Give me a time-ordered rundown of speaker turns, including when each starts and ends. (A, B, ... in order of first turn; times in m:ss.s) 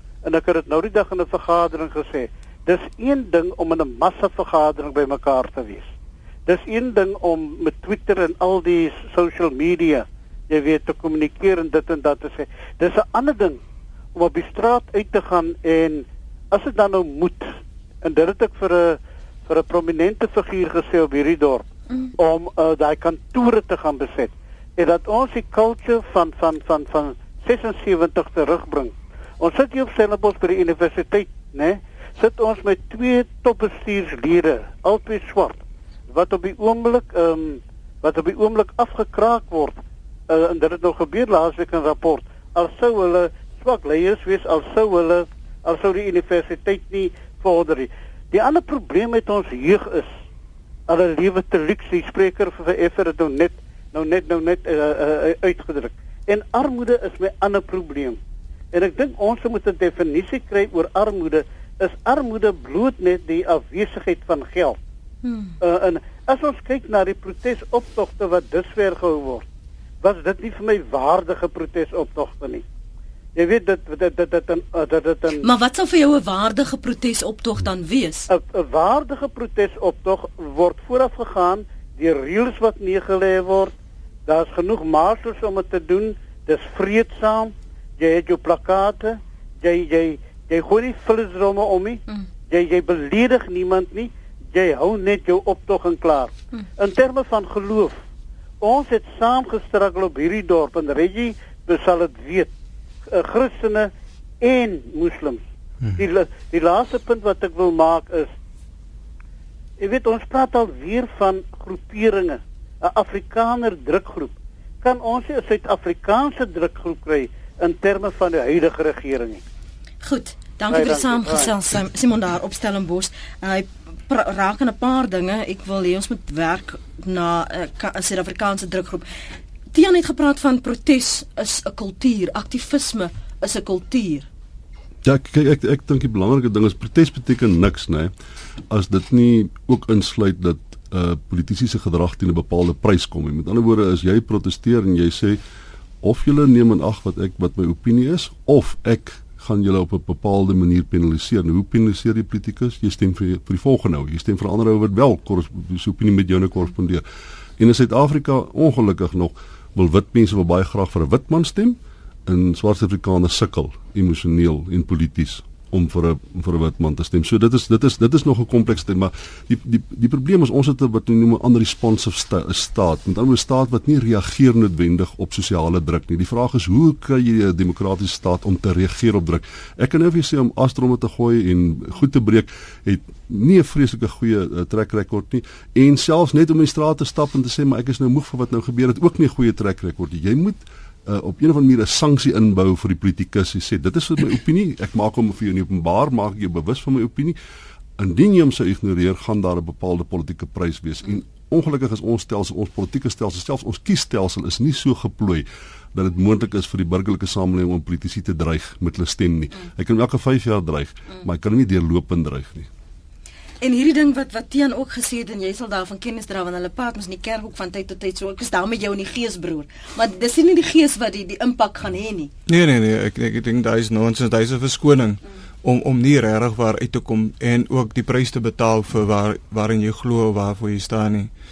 0:00.2-0:05.9 A
0:06.5-0:13.6 A
0:14.2-0:17.5 A
0:18.0-0:50.1 A
0:50.9-0:58.2 A
0:58.7-1:04.8 A
1:05.2-1:05.5 B
1:05.6-1:09.5 A
1:10.0-1:12.6 A
1:13.4-1:15.5 A
1:15.4-1:18.3 B
1:18.3-1:23.7 A
1:24.3-1:38.0 A
1:38.6-1:42.5 A
1:43.1-1:43.9 A
1:44.4-1:45.4 A
1:46.0-1:48.3 A
1:49.8-1:59.4 A
2:00.0-2:09.1 B
2:00.7-2:01.5 A
2:09.7-2:14.3 B
2:15.0-2:18.1 C
2:18.7-2:25.4 C
2:26.0-2:37.0 C
2:37.6-3:17.4 C
3:18.0-3:32.7 C
3:33.6-3:42.3 B
3:42.5-3:51.3 D